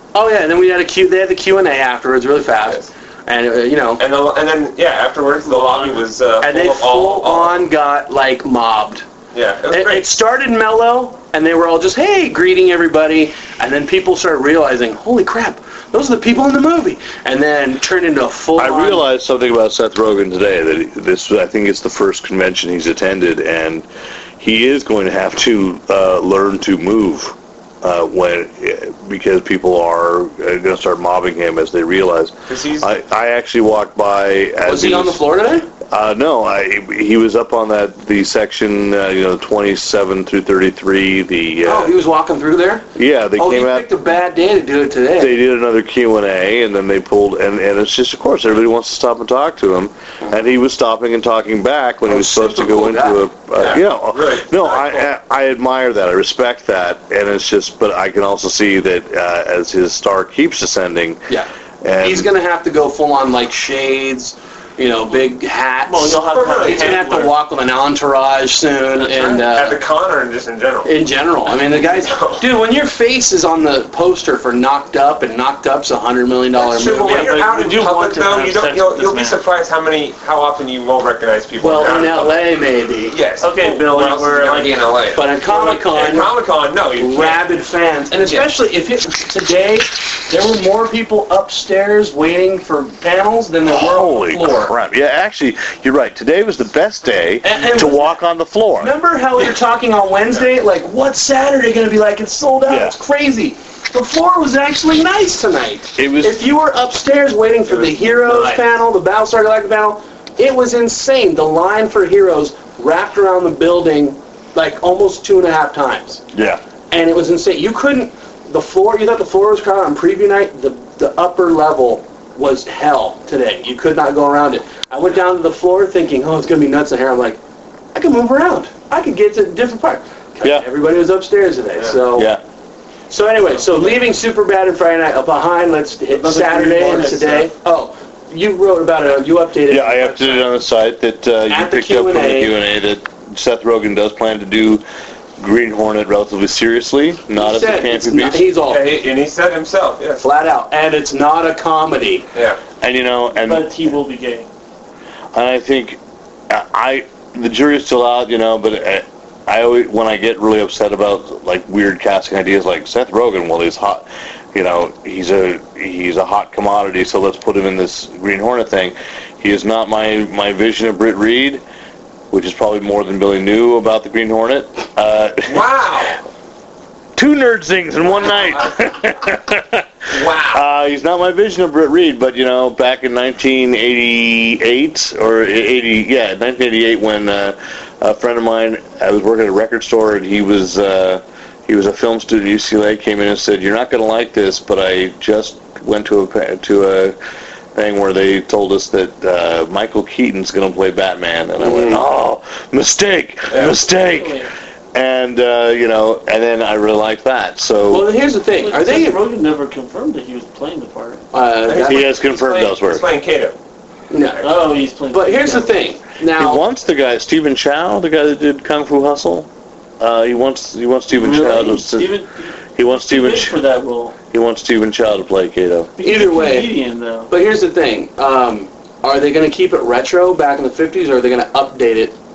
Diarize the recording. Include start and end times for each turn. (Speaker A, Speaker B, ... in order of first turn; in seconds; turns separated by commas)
Speaker A: 0.1-4.0, Speaker B: 4.0-7.7, Speaker C: 5.5-5.9, Speaker A: 6.4-9.1, Speaker B: 9.3-10.1, Speaker A: 9.7-19.1, Speaker D: 18.6-23.9, Speaker D: 24.4-35.2, Speaker B: 32.5-32.9, Speaker A: 34.6-35.7, Speaker D: 35.9-41.9, Speaker A: 41.6-45.4, Speaker D: 43.0-43.9, Speaker D: 45.2-61.2, Speaker A: 52.1-53.2, Speaker B: 53.6-55.1, Speaker D: 61.8-62.3, Speaker A: 62.0-69.8, Speaker C: 65.9-67.3, Speaker B: 66.2-67.2, Speaker B: 69.0-70.9, Speaker A: 70.8-77.4, Speaker B: 71.7-72.4, Speaker B: 76.5-82.4, Speaker C: 77.0-79.4, Speaker A: 81.6-83.2, Speaker B: 83.1-87.4, Speaker C: 83.4-84.9, Speaker A: 85.2-86.3, Speaker A: 87.0-94.7, Speaker D: 93.7-98.9, Speaker A: 97.4-98.2, Speaker A: 98.8-116.2, Speaker D: 102.7-103.0, Speaker D: 106.0-106.4, Speaker B: 107.7-108.5, Speaker D: 116.3-116.6, Speaker A: 116.9-127.4, Speaker A: 127.9-132.3, Speaker D: 132.1-132.4, Speaker A: 133.1-140.5, Speaker C: 136.1-137.5, Speaker D: 139.7-144.8, Speaker A: 141.5-142.6, Speaker D: 145.4-148.4, Speaker A: 147.3-148.8, Speaker B: 148.7-150.2, Speaker A: 150.2-152.3, Speaker B: 152.3-152.6, Speaker D: 152.8-153.7, Speaker C: 153.4-154.5, Speaker D: 155.3-171.6, Speaker D: 172.3-175.7, Speaker B: 175.5-176.2, Speaker D: 177.2-197.2, Speaker B: 178.5-178.7, Speaker B: 180.1-180.6, Speaker D: 197.8-208.1, Speaker A: 201.6-202.0, Speaker B: 203.5-203.8, Speaker C: 203.9-204.5, Speaker A: 207.9-209.2, Speaker C: 208.6-211.2, Speaker A: 211.3-212.1, Speaker B: 211.7-213.6, Speaker D: 211.8-213.0, Speaker A: 214.1-214.5, Speaker C: 214.4-215.8, Speaker A: 215.1-216.6, Speaker D: 216.4-219.5, Speaker D: 220.0-222.1, Speaker C: 221.1-224.2, Speaker D: 222.8-223.6, Speaker D: 224.3-225.9, Speaker C: 226.0-227.3, Speaker A: 226.0-226.7, Speaker A: 227.3-232.2